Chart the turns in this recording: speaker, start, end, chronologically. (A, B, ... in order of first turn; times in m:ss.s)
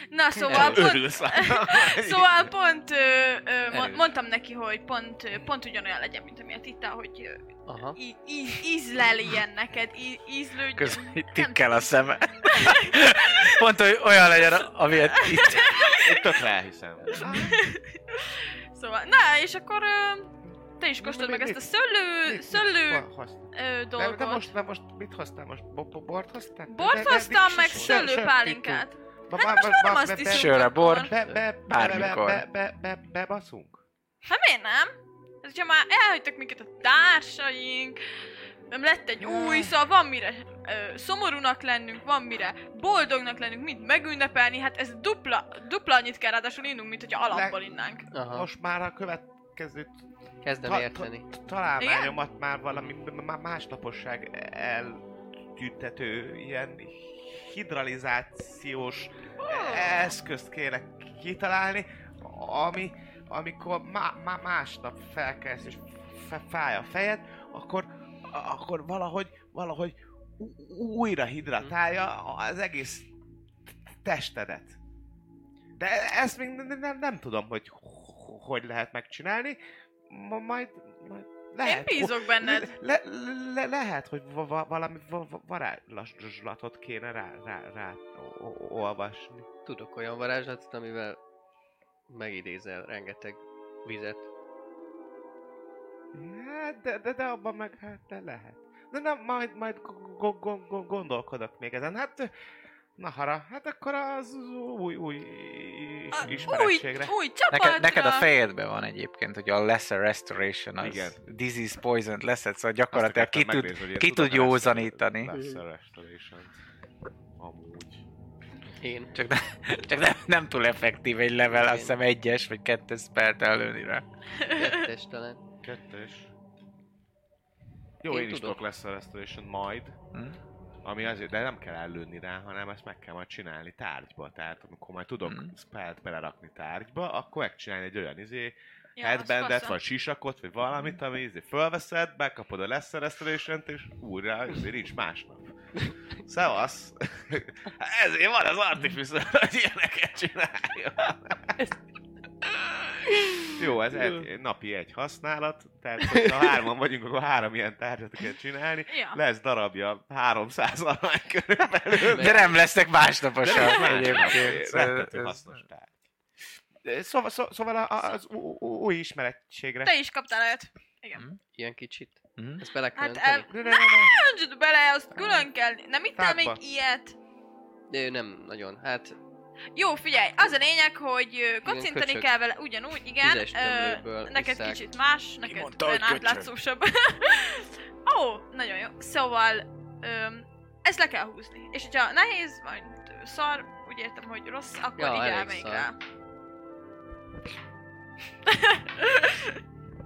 0:00.1-0:07.4 A
0:00.4-0:02.4 B
0:00.5-0:00.9 C
0:03.7-0:04.1 C
0:07.7-0:08.0 C
0:08.0-0:11.6 A
0:10.8-0:15.8 D
0:12.4-0:13.6 A
0:14.3-0:16.5 A
0:15.6-0:17.6 B
0:17.1-0:24.5 A
0:21.0-0:21.6 B
0:22.2-0:33.8 B
0:26.7-0:31.1 A
0:27.8-0:28.0 C
0:30.3-0:31.2 D
0:31.7-0:32.4 D
0:34.3-0:38.0 A
0:38.7-0:48.1 A
0:39.2-0:39.8 B
0:47.3-0:50.0 B
0:48.1-0:48.5 C
0:50.4-0:51.3 C
0:50.6-1:13.1 B
0:51.8-0:52.2 A
0:59.4-1:00.2 A
1:13.9-1:14.8 B
1:15.8-1:19.6 B
1:20.1-1:29.5 B
1:21.6-1:22.7 A
1:29.7-1:31.2 C
1:32.1-1:34.3 C
1:36.1-1:42.3 B
1:43.0-1:47.2 B
1:46.1-1:48.3 A
1:47.5-1:55.4 D
1:50.8-1:51.2 B
1:52.9-1:56.6 B
1:55.3-1:55.6 C
1:57.4-1:58.0 B
1:58.8-1:59.2 C
1:59.2-2:04.0 D
2:01.5-2:02.0 C
2:04.4-2:04.8 A
2:04.5-2:05.4 C
2:05.6-2:06.3 B
2:08.0-2:10.0 B
2:08.1-2:08.6 C
2:10.1-2:10.4 D
2:10.8-2:25.5 B
2:15.2-2:15.5 D
2:19.0-2:19.8 A
2:26.2-2:31.6 B
2:33.1-2:34.3 C
2:33.6-2:42.6 B
2:38.9-2:39.2 A
2:42.1-2:42.6 C
2:42.1-2:45.4 D
2:43.4-2:45.9 B
2:43.5-2:44.5 A
2:46.8-2:49.9 B
2:49.8-2:51.2 A
2:51.6-2:53.5 C
2:52.4-2:52.6 D
2:53.0-2:57.2 A
2:53.5-2:54.1 B
2:56.2-2:56.6 B
2:57.9-2:59.2 C
2:59.8-3:16.0 A
3:01.6-3:02.3 C
3:03.2-3:04.8 C
3:05.4-3:06.5 D
3:15.0-3:15.9 C
3:18.5-3:19.6 A